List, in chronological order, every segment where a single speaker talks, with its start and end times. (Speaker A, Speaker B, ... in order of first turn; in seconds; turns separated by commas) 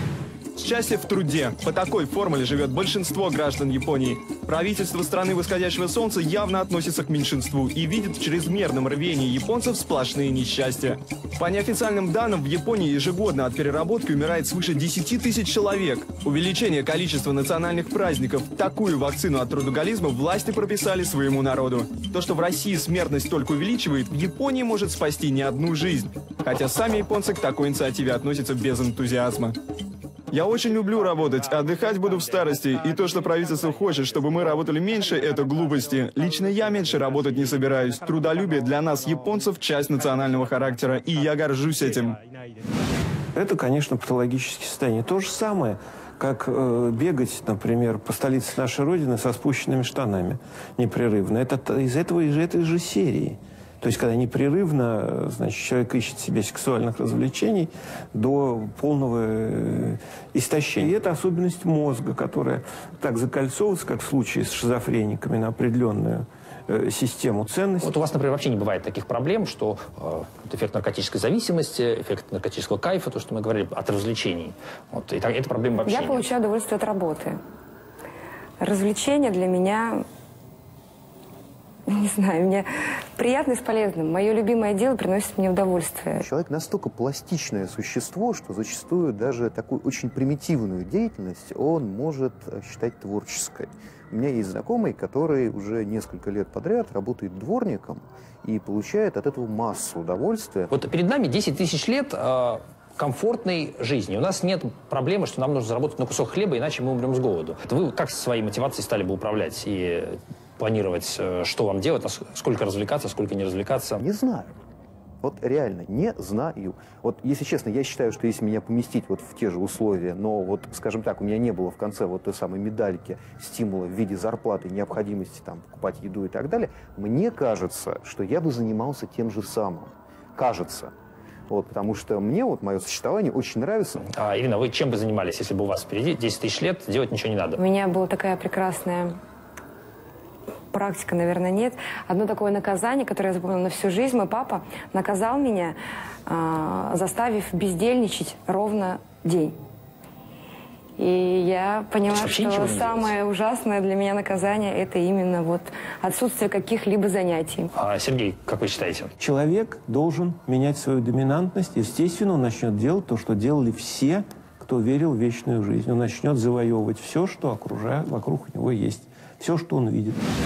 Speaker A: 0.6-29.5, Speaker A: 30.3-42.2, Speaker B: 43.3-68.0, Speaker C: 67.8-76.2, Speaker D: 75.8-77.4, Speaker D: 78.6-80.0, Speaker D: 81.9-86.2, Speaker E: 86.2-100.7, Speaker C: 100.7-114.0, Speaker E: 114.0-114.5, Speaker E: 115.2-130.9, Speaker E: 131.5-134.1, Speaker C: 134.1-137.6, Speaker D: 137.6-139.2, Speaker D: 140.7-145.8, Speaker D: 146.3-149.6, Speaker D: 151.0-157.7, Speaker C: 152.1-153.1, Speaker C: 157.7-159.1, Speaker B: 159.2-170.2